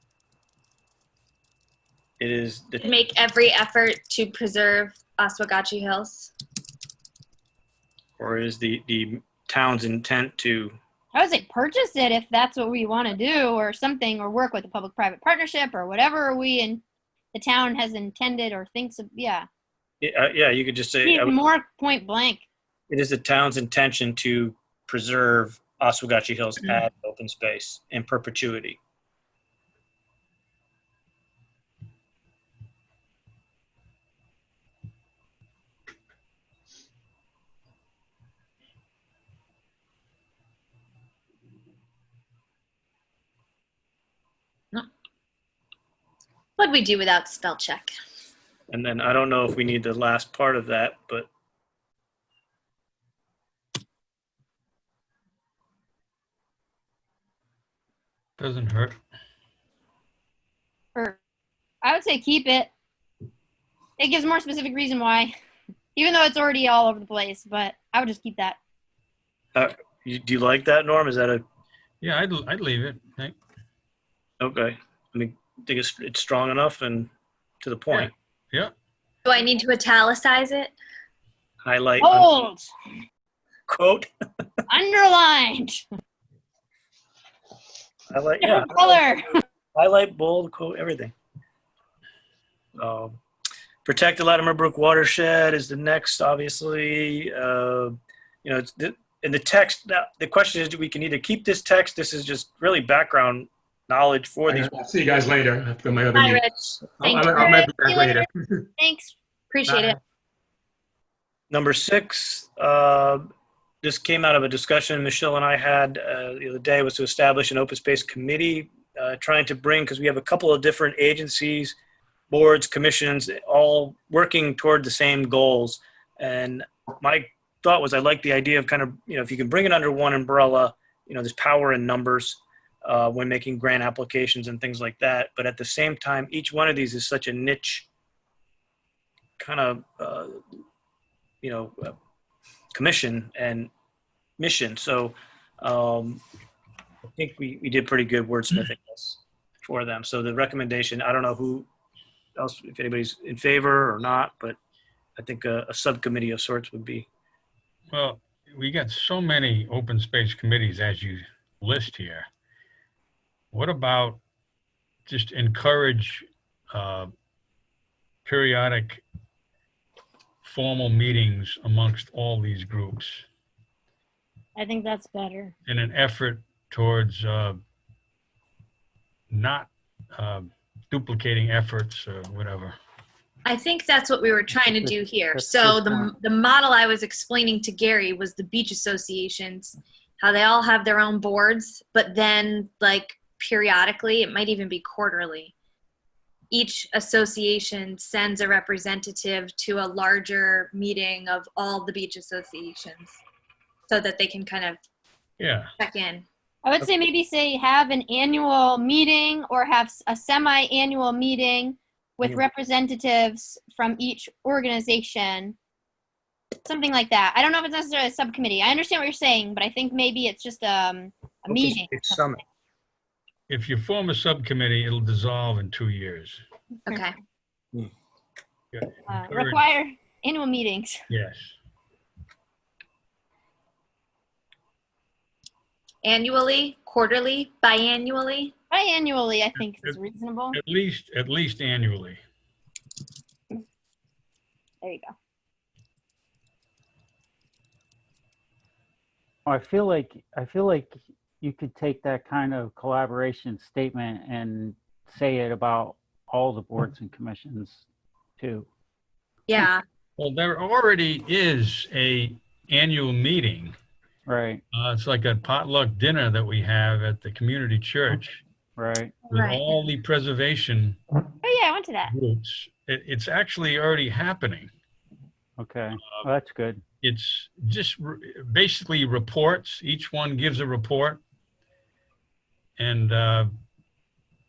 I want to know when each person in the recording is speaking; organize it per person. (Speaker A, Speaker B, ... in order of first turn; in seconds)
Speaker A: 2.2-2.9, 8.2-10.8, 20.0-21.4, 22.9-28.8, 48.7-51.3, 69.5-71.4, 74.4-77.1, 77.6-78.1, 81.6-82.3, 83.7-84.1, 88.1-89.2, 89.8-91.1, 92.8-93.2, 93.8-104.7, 111.5-113.2, 113.8-121.8, 122.3-137.9, 139.4-140.3, 141.4-141.9, 142.7-143.7, 144.4-146.2, 147.2-151.7, 152.4-154.6, 155.2-157.1, 221.5-222.4
Speaker B: 2.8-6.3, 46.6-47.9, 79.3-80.7, 106.1-108.0, 109.5-110.0, 183.5-195.5, 196.5-203.2, 203.9-204.8, 205.8-206.2, 226.9-227.1, 236.0-238.5, 259.5-259.8, 269.3-269.6
Speaker C: 11.1-16.8, 17.3-19.5, 21.0-22.4, 61.8-62.7, 64.0-65.3, 66.0-68.6, 82.0-82.7, 84.7-85.8, 88.4-89.3, 107.4-108.1, 108.8-109.2, 174.6-175.5, 206.7-215.6, 216.6-222.3, 229.1-231.0, 238.7-240.6, 244.8-245.1, 271.4-272.1
Speaker D: 58.4-59.0, 72.0-73.3, 77.9-78.7, 157.9-162.3, 163.5-164.2, 165.1-167.1, 168.2-169.0, 170.4-173.3, 175.7-177.6, 179.3-182.8, 205.4-205.7, 223.5-226.4, 228.7-229.6, 231.1-231.6, 240.5-242.2, 260.2-263.8, 264.7-268.4, 269.3-271.0, 272.1-274.7, 277.0-281.2, 282.8-283.5
Speaker E: 104.5-108.6, 109.7-110.0
Speaker F: 184.5-186.1, 249.5-257.9, 258.4-258.7, 264.3-264.6, 268.8-269.2, 275.6-276.8